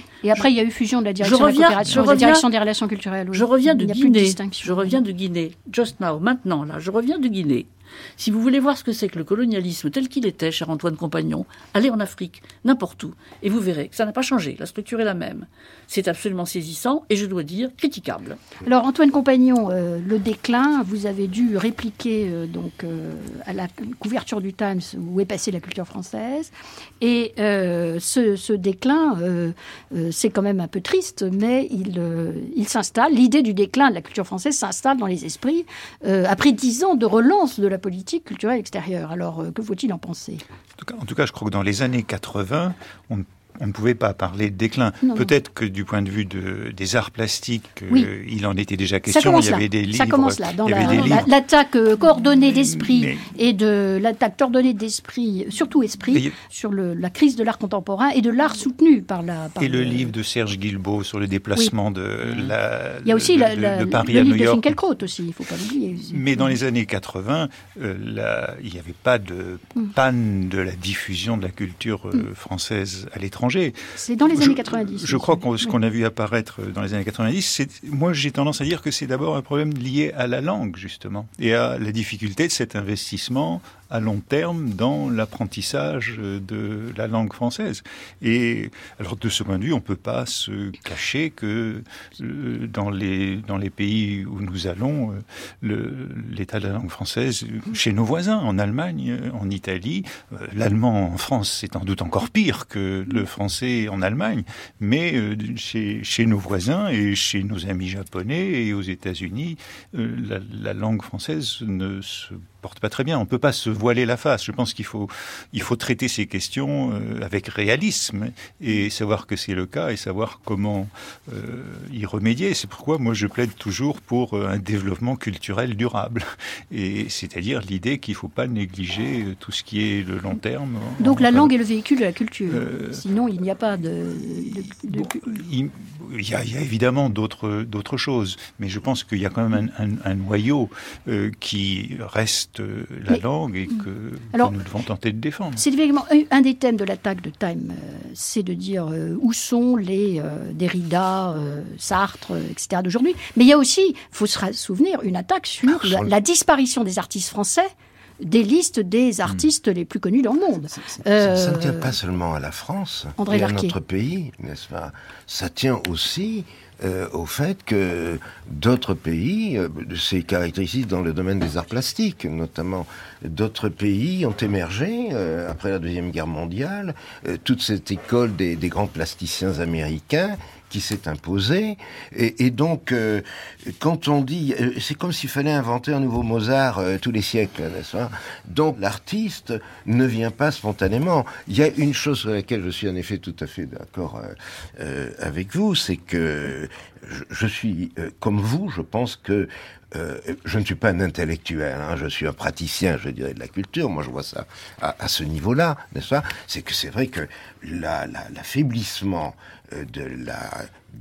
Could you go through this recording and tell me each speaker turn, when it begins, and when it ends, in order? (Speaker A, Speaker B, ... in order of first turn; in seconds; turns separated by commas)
Speaker A: 0.2-5.0, Speaker B: 1.2-2.4, Speaker B: 3.3-18.4, Speaker A: 18.6-40.4, Speaker C: 40.8-51.3, Speaker A: 45.0-45.3, Speaker A: 49.1-60.1, Speaker C: 52.6-53.2, Speaker C: 59.6-64.7, Speaker A: 63.0-66.6, Speaker C: 66.1-131.5, Speaker A: 74.0-75.7, Speaker A: 131.0-135.4, Speaker C: 132.5-133.0, Speaker C: 134.8-145.6, Speaker A: 145.6-161.9, Speaker D: 155.7-156.1, Speaker D: 161.2-210.7, Speaker A: 163.2-163.7